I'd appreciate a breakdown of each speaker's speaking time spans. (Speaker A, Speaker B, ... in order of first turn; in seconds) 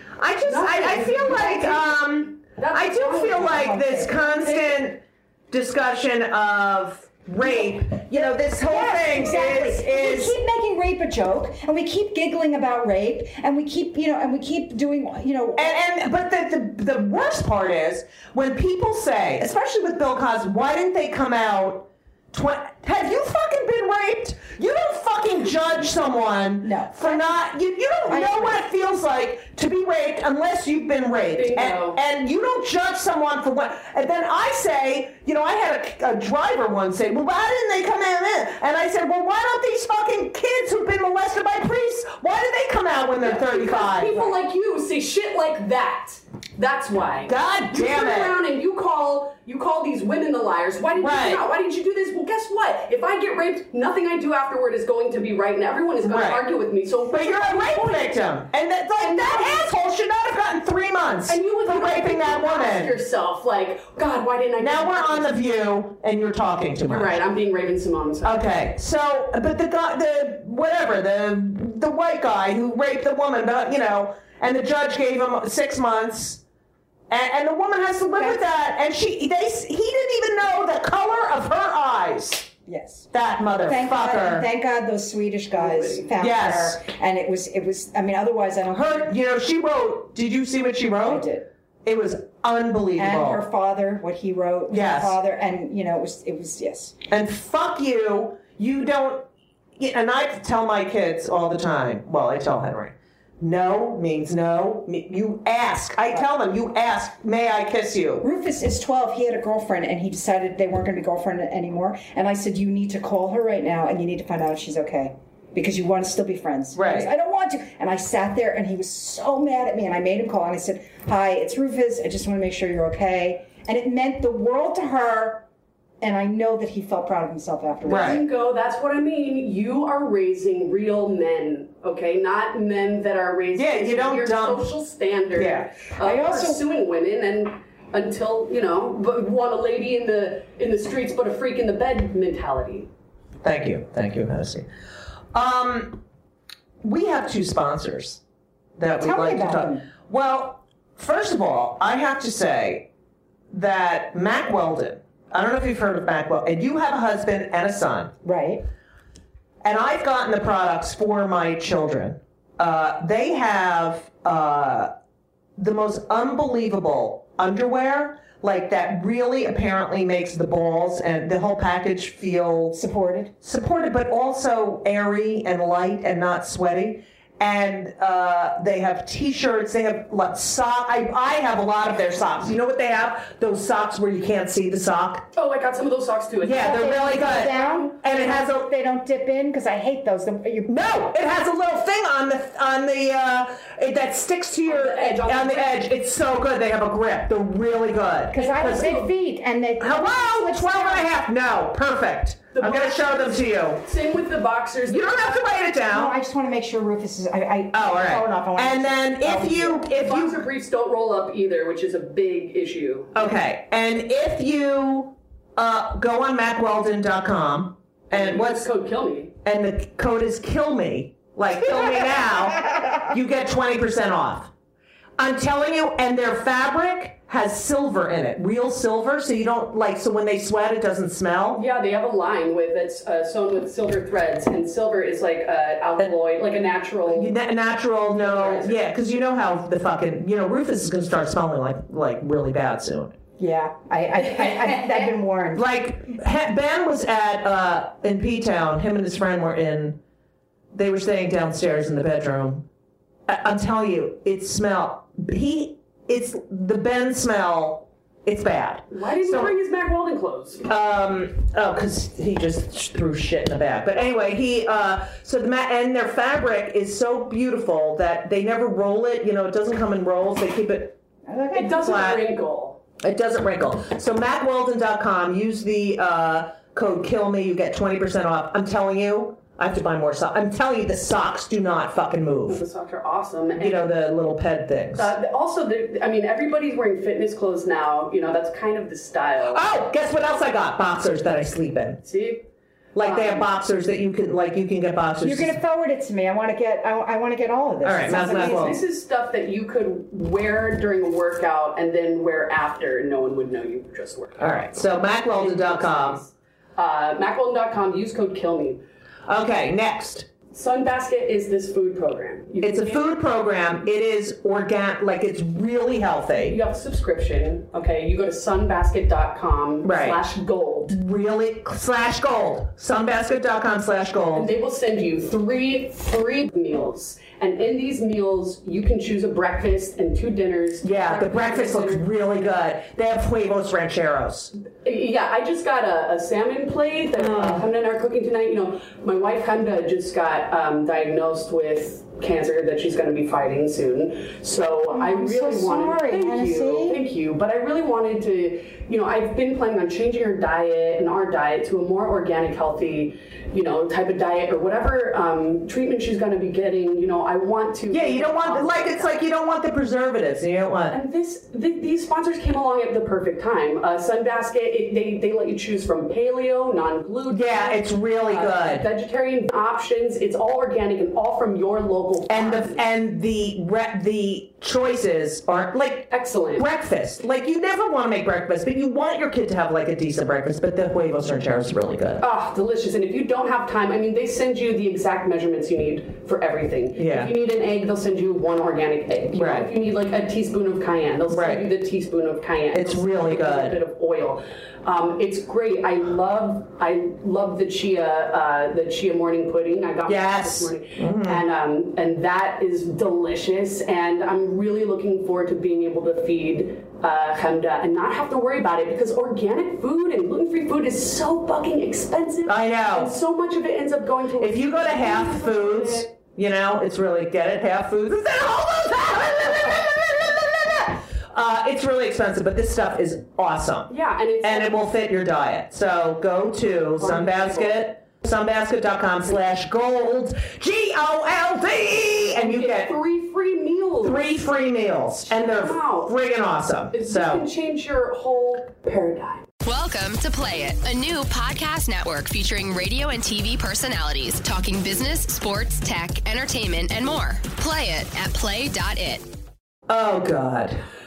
Speaker A: 0.2-10.4, 15.6-44.2, 47.2-48.4, 51.0-51.4, 56.0-56.4, 57.1-63.0, 64.6-67.2, 68.2-76.4, 77.1-82.5, 83.1-84.5, 86.2-86.8, 88.7-91.3, 91.8-93.5, 94.7-95.2, 97.1-99.3, 99.8-108.2, 116.7-117.1, 127.9-128.2, 133.6-134.7, 135.3-135.7, 143.4-144.7, 145.3-146.0, 146.8-148.2, 148.8-152.9, 153.5-158.1, 159.6-164.9, 165.6-172.8, 173.4-185.3, 186.4-188.7, 190.7-198.8, 199.8-203.8, 204.9-206.2, 207.7-210.4, 213.2-218.7, 219.4-224.5, 225.2-231.6, 237.1-243.2, 245.6-250.0, 250.7-252.7, 253.3-259.6, 260.6-271.0, 271.8-272.2, 273.0-282.6, 283.6-285.1, 289.5-292.0, 292.9-295.6, 297.8-298.8, 304.4-306.2, 309.3-310.3, 312.6-316.6, 319.8-320.2, 320.9-324.5, 330.8-334.5, 337.2-337.7, 357.9-361.0, 367.3-368.9, 372.3-382.2, 387.0-387.3, 389.3-389.7, 391.3-391.7, 392.7-393.8, 400.1-401.4, 412.5-413.1, 414.4-432.9, 434.0-437.5, 449.9-450.8
Speaker B: 0.4-3.9, 31.4-32.0, 43.2-58.3, 59.0-59.8, 61.3-65.4, 66.9-68.4, 85.5-86.1, 127.8-142.9, 185.3-187.9, 194.7-195.8, 198.3-199.1, 202.5-205.6, 209.9-213.3, 218.1-219.3, 231.5-237.4, 238.1-238.8, 244.3-245.1, 258.9-260.7, 271.5-272.8, 282.5-283.9, 284.9-289.6, 292.0-293.5, 298.1-308.8, 310.5-313.0, 316.5-321.0, 324.4-332.1, 334.8-359.1, 360.9-372.8, 376.1-376.7, 382.2-416.1, 423.9-424.8, 427.0-427.8, 432.3-434.4, 435.3-436.1, 436.9-439.5
Speaker C: 3.4-4.5, 7.5-15.8, 26.6-27.4, 28.1-28.6, 78.2-78.4, 82.7-83.1, 83.7-89.1, 91.1-91.5, 93.0-97.0, 108.2-125.4, 126.0-128.2, 136.0-136.6, 149.0-149.9, 158.2-158.6, 172.7-173.3, 186.4-190.7, 198.3-201.1, 205.9-209.9, 243.4-245.7, 271.3-272.1, 295.2-298.8, 344.9-347.0
Speaker D: 439.7-449.3